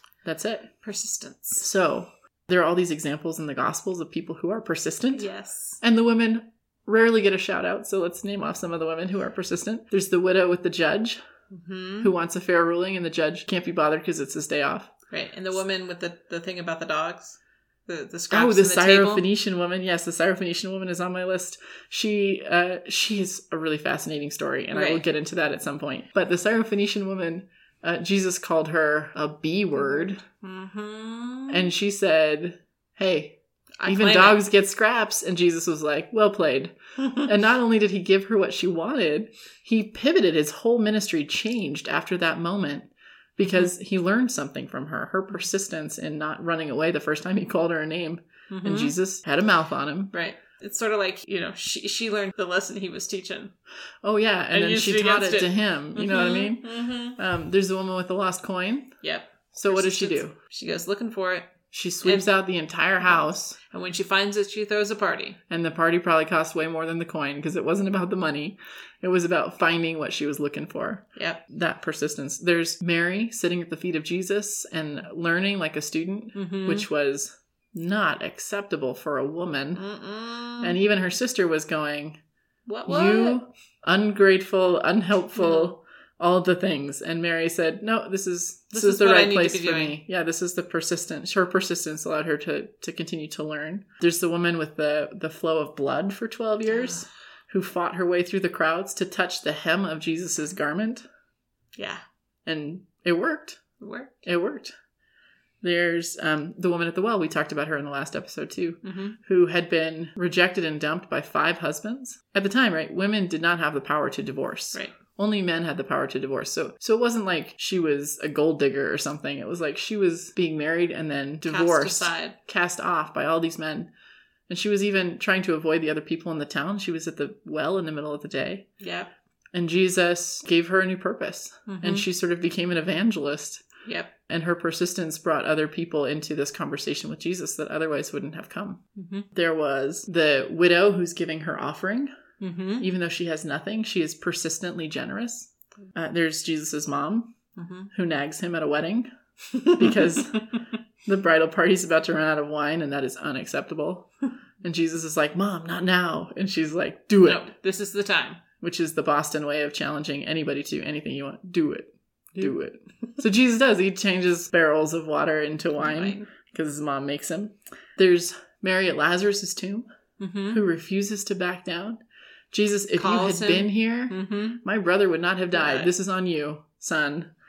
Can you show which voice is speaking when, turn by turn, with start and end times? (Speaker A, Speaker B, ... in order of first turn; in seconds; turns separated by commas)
Speaker A: 0.2-0.7, Speaker B: 0.8-1.6, Speaker A: 1.6-5.3, Speaker B: 5.1-5.8, Speaker A: 5.8-11.2, Speaker B: 11.5-12.1, Speaker A: 12.0-14.9, Speaker B: 15.1-19.2, Speaker A: 18.3-30.2, Speaker B: 24.7-25.0, Speaker B: 29.8-31.7, Speaker A: 31.5-50.1, Speaker B: 33.8-34.4, Speaker B: 37.0-37.3, Speaker B: 48.5-48.9, Speaker B: 50.1-53.5, Speaker A: 54.0-58.9, Speaker B: 54.5-57.2, Speaker B: 59.0-61.5, Speaker A: 59.5-60.4, Speaker A: 61.7-63.6, Speaker B: 62.0-62.3, Speaker B: 63.0-65.4, Speaker A: 65.5-79.8, Speaker B: 71.2-71.4, Speaker B: 76.3-76.9, Speaker B: 79.7-80.8, Speaker A: 80.6-82.2, Speaker B: 82.7-83.4, Speaker A: 82.8-101.0, Speaker B: 85.3-85.7, Speaker B: 88.7-90.0, Speaker B: 96.7-97.0, Speaker B: 101.8-102.0, Speaker A: 102.5-103.6, Speaker B: 103.8-104.1, Speaker A: 104.2-104.7, Speaker A: 105.6-123.9, Speaker B: 108.8-109.2, Speaker B: 121.5-122.3, Speaker A: 124.5-128.7, Speaker B: 128.8-129.1, Speaker A: 129.5-133.7, Speaker B: 131.7-132.0, Speaker B: 133.8-134.1, Speaker A: 134.3-138.8, Speaker B: 138.9-139.3, Speaker A: 139.3-142.1, Speaker B: 142.4-142.9, Speaker A: 142.8-147.3, Speaker B: 147.6-147.9, Speaker A: 147.9-149.1, Speaker B: 149.6-150.1, Speaker A: 149.7-150.5, Speaker A: 151.0-154.1, Speaker A: 154.6-157.4, Speaker B: 157.2-158.4, Speaker A: 158.6-169.9, Speaker B: 165.8-166.3, Speaker B: 170.2-170.6, Speaker A: 170.5-172.0, Speaker A: 172.5-177.3, Speaker B: 172.9-174.6, Speaker B: 175.5-175.9